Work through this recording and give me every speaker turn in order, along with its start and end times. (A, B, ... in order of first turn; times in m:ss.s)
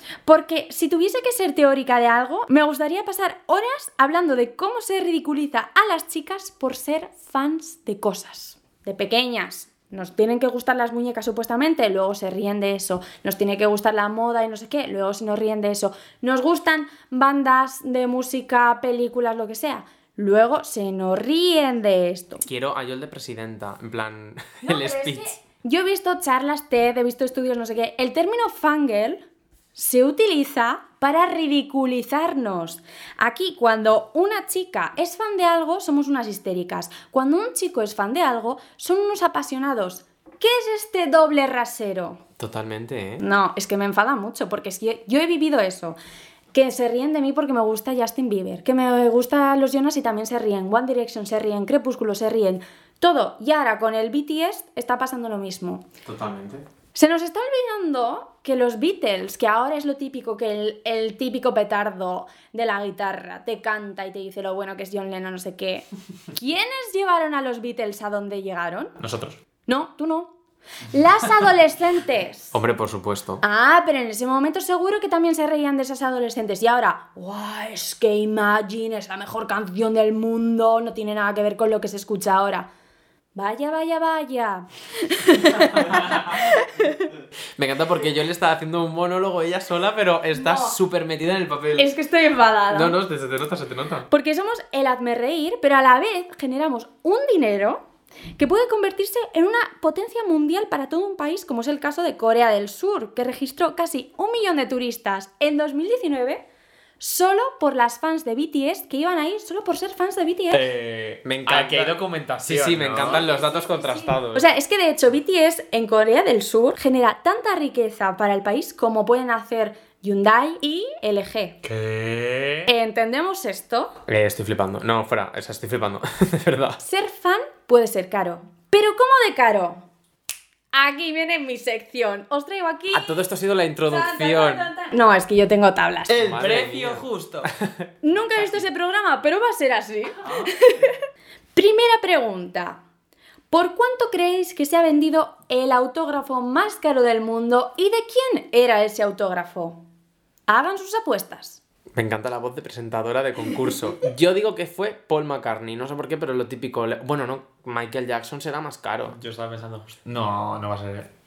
0:00.2-0:22.4 A
0:22.4-0:25.4 B
0:24.6-0:29.2 A
0:29.7-0:42.2 A
0:42.4-0:43.2 B
0:43.2-0:46.0 A
0:46.5-0:55.8 A
0:56.0-0:56.6 B
0:56.9-1:08.9 A
1:09.0-1:09.4 C
1:09.7-1:10.3 A
1:10.9-1:12.5 A
1:12.5-1:13.4 B
1:13.4-1:22.7 A
1:23.3-1:27.0 A
1:27.6-1:31.9 B
1:30.3-1:30.7 A
1:31.8-1:32.9 A
1:32.7-1:34.1 B
1:34.1-1:37.8 A
1:38.4-1:46.4 A
1:47.0-1:50.6 A
1:50.5-1:53.3 C
1:51.2-1:54.5 B
1:53.0-2:01.6 A
2:01.6-2:02.7 C
2:02.7-2:04.0 A
2:04.1-2:06.8 B
2:06.8-2:09.8 A
2:10.7-2:13.2 A
2:12.9-2:14.7 B
2:13.8-2:16.2 A
2:16.1-2:17.5 C
2:16.1-2:17.9 B
2:18.0-2:21.0 A
2:21.5-2:22.8 A
2:23.5-2:29.8 A
2:30.5-2:31.6 A
2:31.9-2:39.2 B
2:39.1-2:41.1 C